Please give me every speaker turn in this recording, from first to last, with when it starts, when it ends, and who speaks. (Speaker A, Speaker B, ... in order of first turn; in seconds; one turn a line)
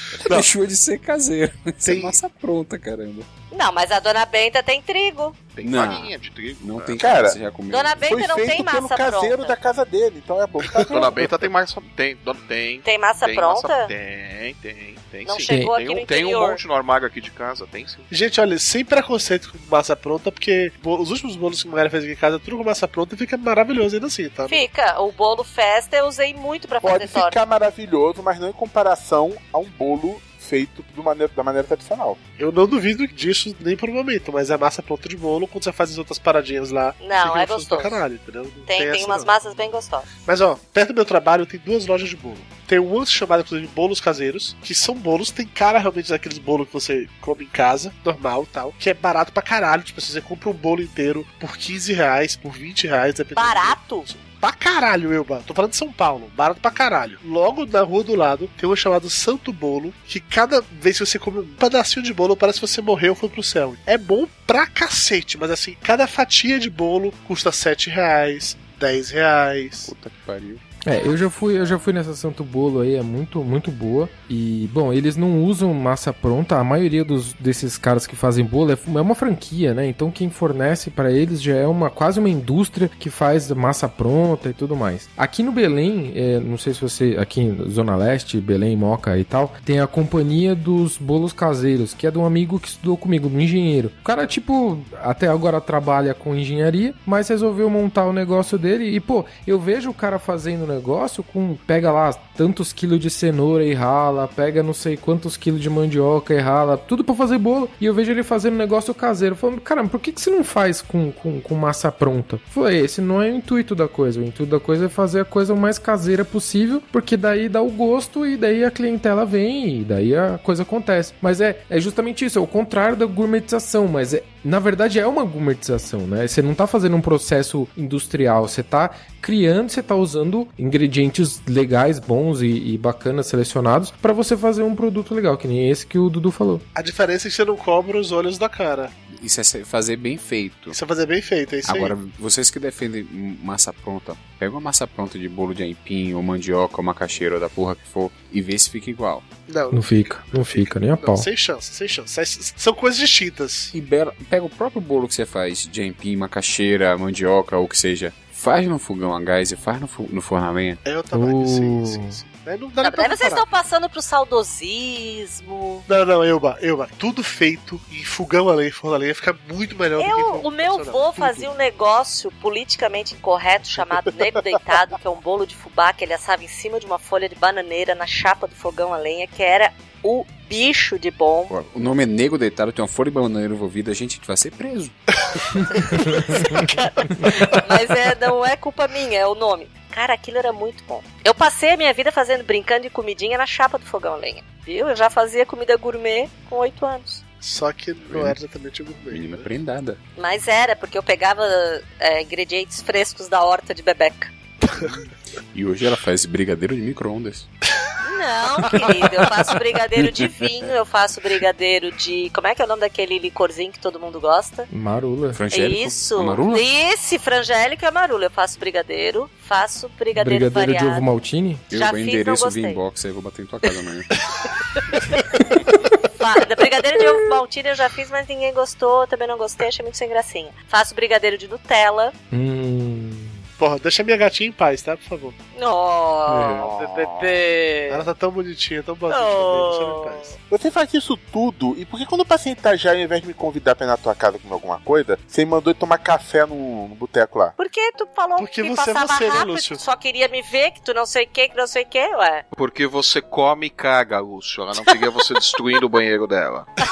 Speaker A: 0.1-3.3
Speaker B: 1.8-2.2
Speaker C: 3.5-6.0
Speaker D: 5.5-7.0
Speaker A: 5.6-8.2
Speaker E: 7.0-7.4
Speaker C: 7.7-9.5
Speaker E: 8.0-11.4
Speaker D: 10.8-18.1
Speaker C: 12.8-13.9
Speaker C: 15.2-16.6
Speaker F: 15.5-15.7
Speaker B: 18.1-24.6
Speaker C: 24.5-27.4
Speaker E: 26.8-32.2
Speaker B: 32.4-39.3
Speaker C: 37.0-38.0
Speaker C: 38.7-40.1
Speaker B: 40.2-69.9
Speaker C: 53.3-54.1
Speaker A: 69.8-70.6
Speaker F: 70.8-136.6
Speaker B: 136.7-138.9
Speaker A: 139.2-140.8
Speaker B: 140.7-142.0
Speaker A: 141.6-149.2
Speaker B: 149.5-153.7
Speaker F: 149.7-151.3
Speaker A: 153.7-160.8
Speaker B: 160.8-163.4
Speaker F: 161.1-162.2
Speaker C: 162.8-165.8
Speaker B: 165.9-171.5
Speaker C: 170.0-181.5
Speaker A: 181.5-184.9
Speaker C: 185.8-197.2
Speaker B: 197.4-199.5
Speaker A: 198.1-198.3
Speaker A: 199.1-200.0
Speaker C: 200.2-204.3
Speaker A: 205.5-207.5
Speaker C: 208.0-214.7
Speaker A: 210.0-210.3
Speaker F: 214.7-215.4
Speaker A: 215.3-216.6
Speaker C: 215.5-221.1
Speaker F: 220.2-221.6
Speaker C: 221.7-222.8
Speaker A: 221.7-224.1
Speaker C: 226.2-232.1
Speaker F: 232.3-233.4
Speaker B: 233.6-235.3
Speaker C: 235.5-238.1
Speaker E: 236.4-236.8
Speaker B: 237.9-240.3
Speaker C: 239.1-240.3
Speaker E: 240.5-247.6
Speaker C: 247.6-252.4
Speaker B: 248.4-249.8
Speaker D: 252.5-256.7